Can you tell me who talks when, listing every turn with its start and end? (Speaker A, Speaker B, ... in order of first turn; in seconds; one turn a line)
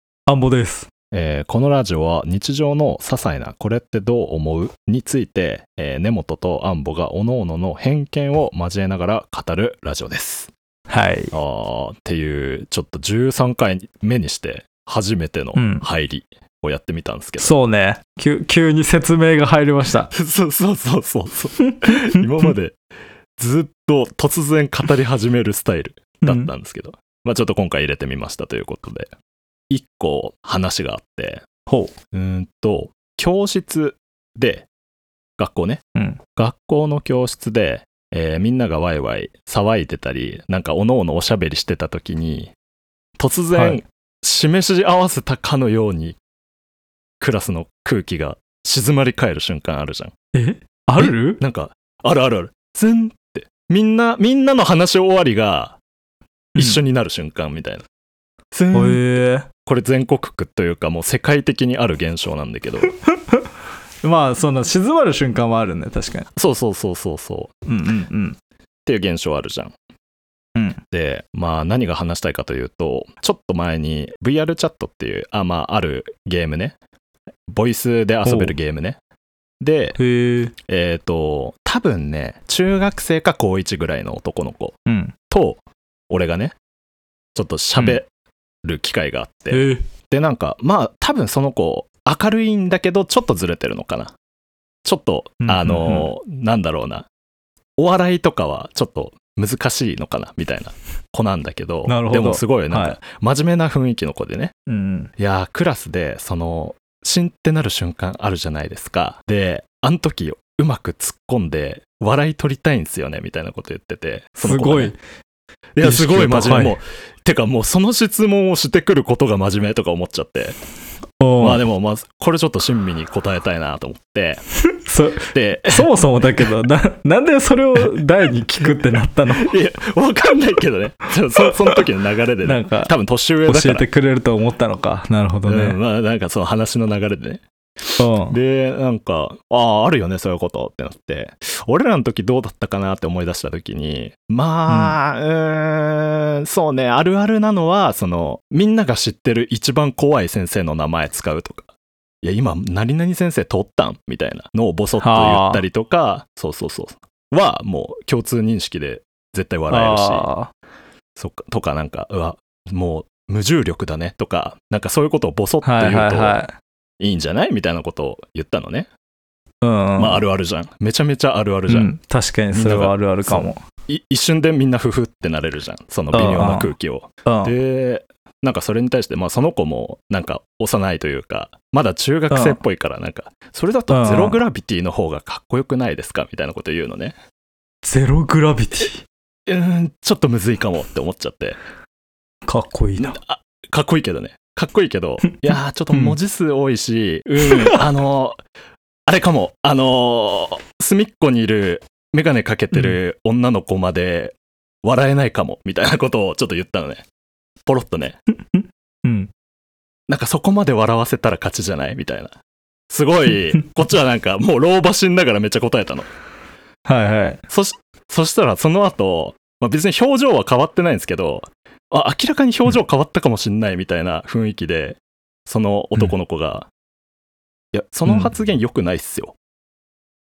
Speaker A: 0.3-0.9
Speaker B: 1.1-10.5
Speaker A: 10.9-11.3
Speaker B: 11.3-17.5
Speaker A: 15.6-15.9
Speaker A: 17.4-20.1
Speaker B: 20.1-22.8
Speaker A: 21.8-22.5
Speaker B: 23.4-29.1
Speaker A: 26.2-26.5
Speaker B: 29.7-31.4
Speaker A: 31.7-31.9
Speaker B: 32.1-34.7
Speaker B: 35.4-35.8
Speaker A: 36.0-36.2
Speaker B: 36.4-42.5
Speaker B: 43.2-46.2
Speaker A: 43.5-43.8
Speaker B: 47.2-50.1
Speaker A: 50.3-51.4
Speaker B: 51.0-55.8
Speaker A: 56.5-56.8
Speaker B: 56.6-57.9
Speaker B: 58.5-62.9
Speaker A: 58.7-59.5
Speaker A: 63.1-63.5
Speaker A: 64.0-66.3
Speaker B: 66.4-67.5
Speaker A: 67.7-68.4
Speaker B: 68.9-69.7
Speaker A: 70.5-70.8
Speaker B: 70.9-76.8
Speaker B: 77.5-79.0
Speaker A: 78.2-78.5
Speaker B: 79.6-80.0
Speaker A: 80.0-80.5
Speaker B: 80.7-84.8
Speaker A: 84.9-85.1
Speaker B: 85.3-86.6
Speaker B: 87.3-88.1
Speaker B: 88.6-94.1
Speaker A: 89.5-89.8
Speaker B: 94.8-97.1
Speaker A: 95.4-96.1
Speaker B: 97.8-104.5
Speaker A: 101.9-103.0
Speaker A: 104.7-105.1
Speaker B: 105.2-114.9
Speaker A: 114.4-115.0
Speaker B: 115.8-120.6
Speaker A: 115.8-116.8
Speaker A: 121.2-121.6
Speaker B: 121.4-124.4
Speaker A: 124.6-129.5
Speaker B: 125.3-125.9
Speaker B: 129.3-133.9
Speaker A: 131.4-131.8
Speaker A: 132.4-132.9
Speaker A: 133.5-135.8
Speaker B: 135.5-151.7
Speaker A: 138.0-138.4
Speaker A: 144.7-144.9
Speaker B: 152.2-160.3
Speaker A: 155.0-155.6
Speaker A: 159.7-160.5
Speaker B: 161.2-166.4
Speaker A: 165.6-166.5
Speaker B: 167.0-168.9
Speaker A: 169.6-170.2
Speaker B: 170.0-171.9
Speaker A: 171.7-173.6
Speaker B: 172.5-187.2
Speaker A: 176.1-176.7
Speaker A: 177.2-177.5
Speaker A: 182.3-182.6
Speaker A: 183.9-184.4
Speaker A: 187.8-189.1
Speaker B: 189.5-191.6
Speaker A: 192.5-193.2
Speaker B: 193.0-198.4
Speaker A: 197.5-197.8
Speaker B: 199.1-207.0
Speaker A: 202.7-203.0
Speaker B: 207.7-208.2
Speaker A: 208.4-209.3
Speaker B: 210.1-212.3
Speaker B: 212.9-216.1
Speaker A: 216.9-217.4
Speaker B: 217.5-226.7
Speaker B: 227.7-229.4